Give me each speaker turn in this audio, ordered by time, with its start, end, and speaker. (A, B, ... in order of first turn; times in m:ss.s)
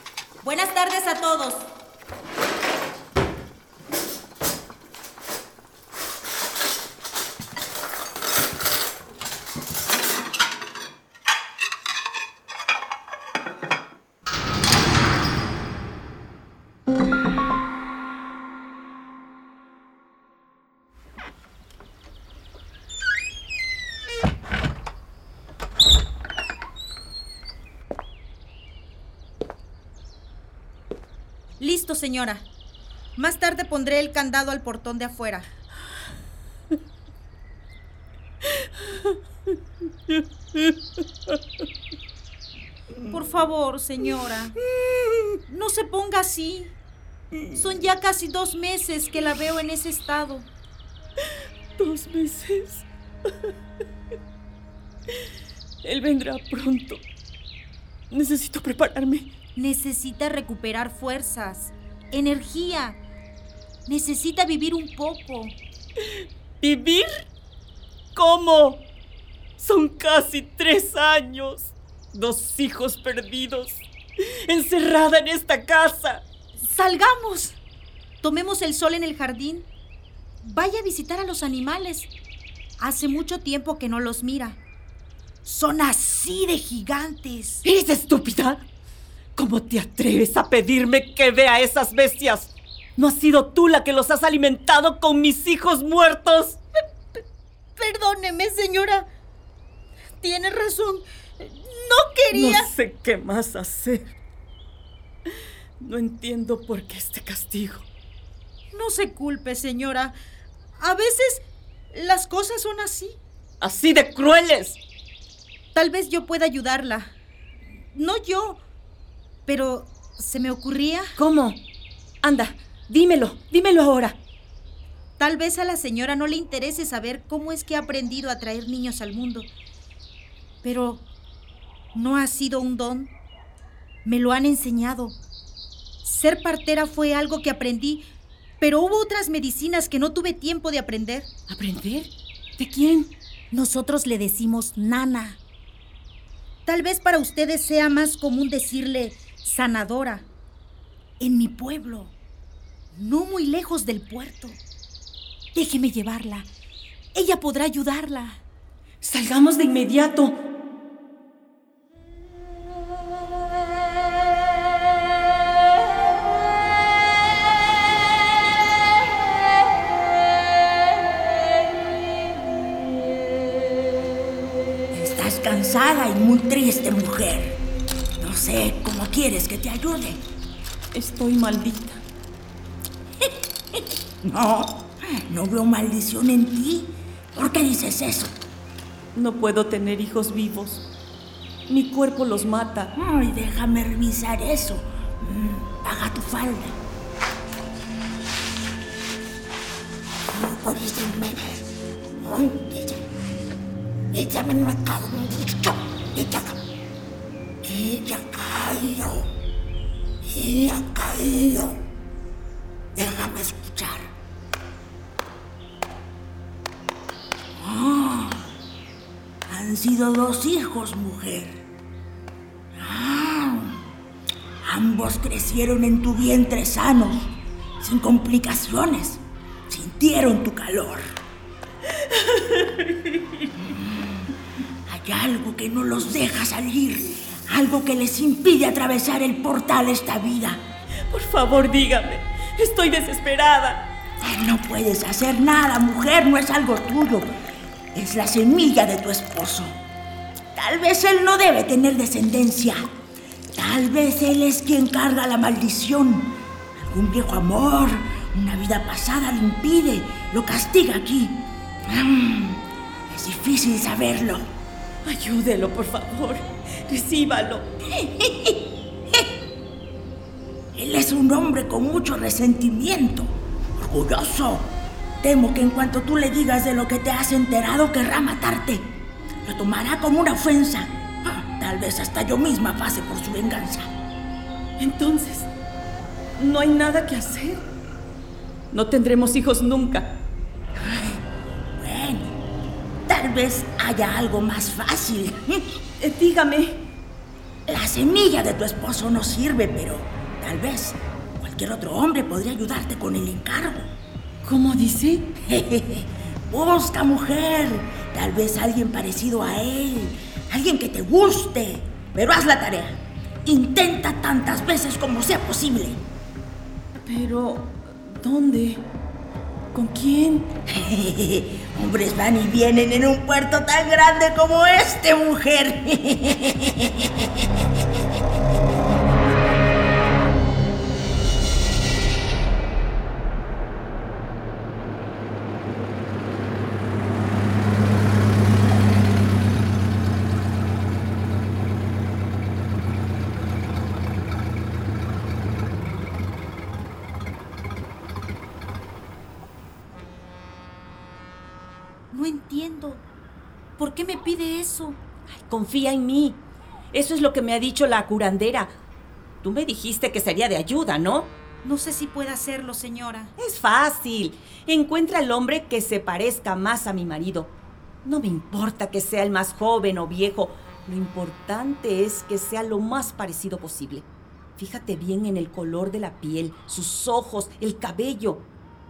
0:00.4-0:01.7 A
0:31.6-0:32.5 A
0:33.2-0:35.5 A
0:43.1-0:44.6 A
0:45.5-0:46.7 A
0:47.5-0:50.5 A
0:51.8-0:52.8 B
0:55.8-0:57.0 B
0:58.1-0:59.3 B
0:59.6-1:03.0 A
1:03.9-1:05.6 A
1:06.6-1:07.2 B
1:08.2-1:08.8 B
1:09.6-1:16.2 B
1:16.6-1:17.6 A
1:18.2-1:19.7 A
1:20.4-1:22.1 A
1:22.8-1:24.6 A
1:25.4-1:27.6 A
1:27.6-1:28.6 B
1:29.4-1:36.6 B
1:37.8-1:39.1 A
1:40.2-1:42.7 A
1:42.3-1:44.1 B
1:45.8-1:47.9 B
1:48.7-1:50.2 A
1:50.8-1:53.2 A
1:53.6-1:54.8 B
1:55.7-1:57.1 A
1:57.9-1:58.6 A
1:59.5-2:01.2 A
2:01.2-2:01.6 B
2:02.2-2:04.2 B
2:05.2-2:09.5 A
2:10.6-2:11.0 A
2:11.9-2:13.1 A
2:14.0-2:15.2 A
2:16.0-2:18.1 A
2:18.6-2:21.3 A
2:21.5-2:23.1 B
2:23.5-2:25.4 A
2:26.7-2:30.3 A
2:31.2-2:32.1 A
2:32.9-2:34.6 A
2:35.6-2:36.5 A
2:37.1-2:38.4 A
2:39.0-2:40.4 B
2:54.9-2:57.6 C
2:58.2-3:00.2 C
3:00.9-3:02.0 B
3:04.2-3:08.4 C
3:09.2-3:10.8 B
3:11.7-3:12.9 B
3:13.0-3:16.8 C
3:20.3-3:21.6 C
3:22.2-3:23.0 C
3:24.1-3:26.6 C
3:27.6-3:29.2 C
3:30.3-3:31.8 C
3:32.9-3:34.1 C
3:37.6-3:38.4 C
3:39.5-3:41.6 C
3:42.8-3:43.8 C
3:44.6-3:51.0 C
3:52.2-3:52.8 B
3:53.7-3:54.3 C
3:54.9-4:00.6 C
4:01.0-4:03.9 B
4:04.2-4:07.3 C
4:07.9-4:09.8 C
4:10.5-4:12.9 C
4:13.5-4:24.5 C
4:25.0-4:27.7 B
4:28.2-4:28.5 C
4:30.7-4:38.8 C
4:39.5-4:43.9 C
4:44.8-4:45.5 B
4:46.4-4:47.7 B
4:48.7-4:50.2 B
4:50.8-4:51.2 C
4:51.8-4:52.4 C
4:53.1-4:55.6 C
4:56.0-4:56.9 B
4:57.7-5:03.9 C
5:04.4-5:05.3 B
5:05.4-5:16.0 C
5:17.0-5:18.9 B
5:19.7-5:20.5 B
5:20.7-5:27.1 C
5:52.1-5:53.0 A
5:53.8-5:55.0 A
5:55.3-5:58.7 B
5:59.4-6:01.3 B
6:01.6-6:03.3 A
6:03.4-6:07.5 B
6:08.0-6:18.5 B